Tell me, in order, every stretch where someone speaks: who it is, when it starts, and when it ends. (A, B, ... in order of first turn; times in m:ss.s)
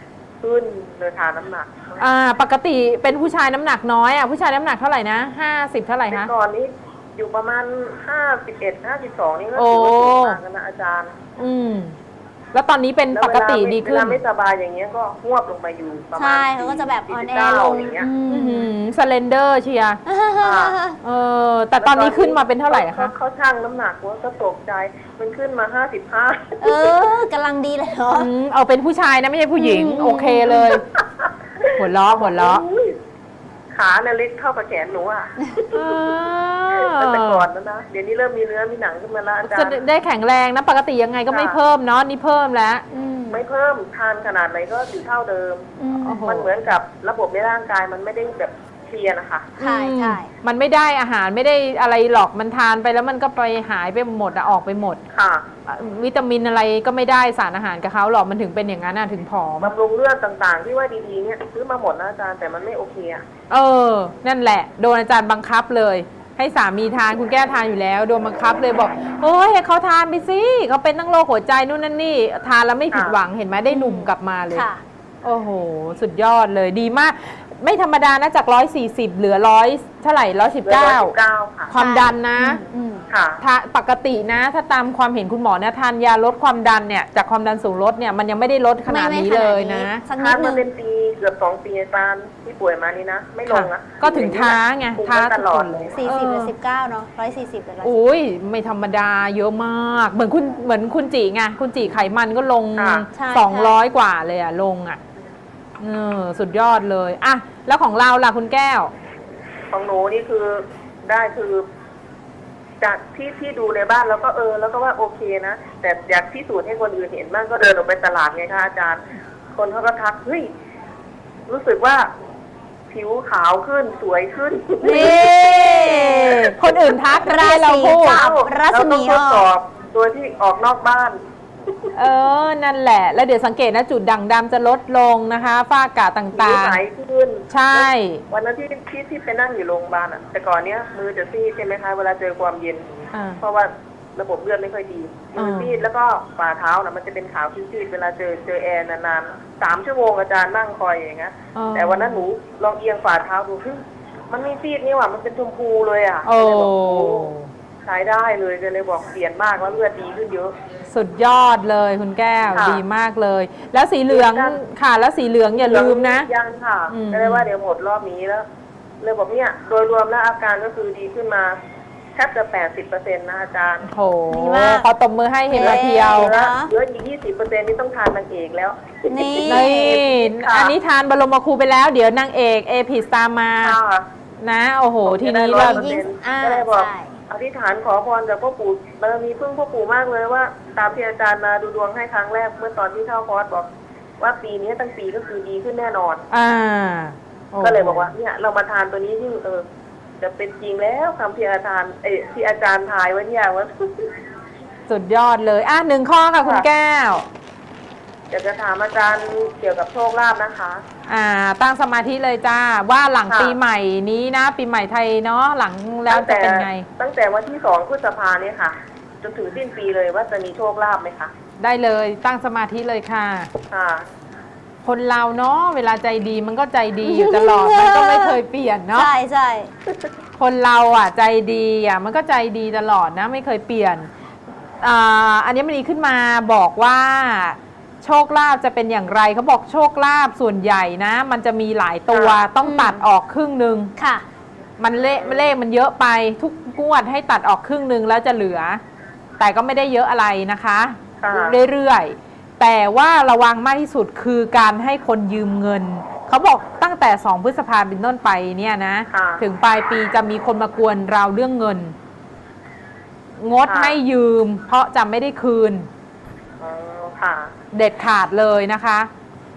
0:00.4-0:02.0 A
0:02.0-0:06.3 B
0:06.1-0:11.2 A
0:09.6-0:10.4 B
0:11.4-0:12.0 B
0:12.5-0:14.2 B
0:13.1-0:18.1 A
0:16.2-0:18.7 C
0:18.0-0:20.0 B
0:20.1-0:21.0 C
0:20.4-0:20.8 A
0:21.0-0:23.1 B
0:21.8-0:27.0 A
0:26.6-0:28.3 C
0:28.1-0:30.8 B
0:29.6-0:30.6 C
0:30.9-0:33.0 A
0:31.7-0:32.6 B
0:33.8-0:36.1 A
0:35.7-0:37.5 B
0:36.7-0:39.8 A
0:39.4-0:42.9 B
0:41.3-0:41.6 A
0:42.9-0:43.4 C
0:43.3-0:49.5 A
0:45.8-0:46.3 C
0:46.0-0:46.5 B
0:49.6-0:50.3 C
0:49.6-0:55.0 B
0:55.1-0:55.5 A
0:55.7-0:59.7 B
0:59.6-1:03.2 A
1:03.5-1:14.7 B
1:12.9-1:13.2 A
1:13.7-1:14.8 C
1:15.2-1:21.1 B
1:20.7-1:21.7 A
1:21.7-1:22.6 B
1:21.7-1:23.0 C
1:23.1-1:23.4 A
1:23.4-1:30.0 B
1:28.9-1:30.7 C
1:30.2-1:36.0 A
1:33.5-1:36.5 B
1:36.0-1:38.0 C
1:37.8-1:45.0 B
1:42.8-1:43.1 A
1:43.1-1:43.7 C
1:45.8-1:48.9 B
1:49.7-1:51.6 A
1:52.8-1:59.0 A
1:59.6-2:00.5 A
2:01.5-2:02.1 A
2:02.9-2:06.1 A
2:04.8-2:06.5 C
2:04.8-2:08.2 B
2:07.2-2:09.5 C
2:08.0-2:11.2 A
2:12.0-2:16.8 B
2:16.4-2:22.9 A
2:17.5-2:18.2 B
2:23.1-2:23.4 B
2:23.4-2:37.3 A
2:25.4-2:25.8 B
2:31.6-2:32.2 B
2:36.2-2:37.5 B
2:37.8-2:40.5 A
2:40.9-2:46.3 B
2:42.5-2:42.8 A
2:44.1-2:44.6 A
2:45.6-2:48.5 A
2:46.9-2:47.5 B
2:49.0-2:51.6 A
2:52.2-2:53.9 A
2:53.9-2:56.3 B
2:54.3-2:54.9 C
2:55.5-2:56.7 C
2:55.5-3:00.7 A
2:59.1-3:00.0 C
2:59.5-3:03.8 B
3:03.6-3:04.1 A
3:04.4-3:05.9 B
3:05.1-3:13.7 A
3:05.6-3:07.1 C
3:14.2-3:16.2 A
3:16.3-3:18.1 B
3:17.6-3:19.6 A
3:20.2-3:24.1 A
3:24.9-3:27.3 B
3:28.3-3:30.8 A
3:31.1-3:36.9 B
3:33.3-3:33.6 A
3:36.1-3:41.3 A
3:41.6-3:43.5 B
3:43.7-3:44.1 A
3:44.8-3:49.1 B
3:47.0-3:48.4 C
3:48.9-3:49.7 C
3:50.4-3:54.1 B
3:54.8-4:03.9 B
4:02.1-4:02.4 A
4:02.6-4:03.0 C
4:04.0-4:04.2 C
4:04.8-4:08.8 B
4:05.2-4:05.4 A
4:09.4-4:22.0 B
4:11.2-4:11.6 A
4:19.1-4:19.4 A
4:23.4-4:25.9 B
4:23.7-4:24.0 A
4:26.6-4:27.5 A
4:27.7-4:29.1 B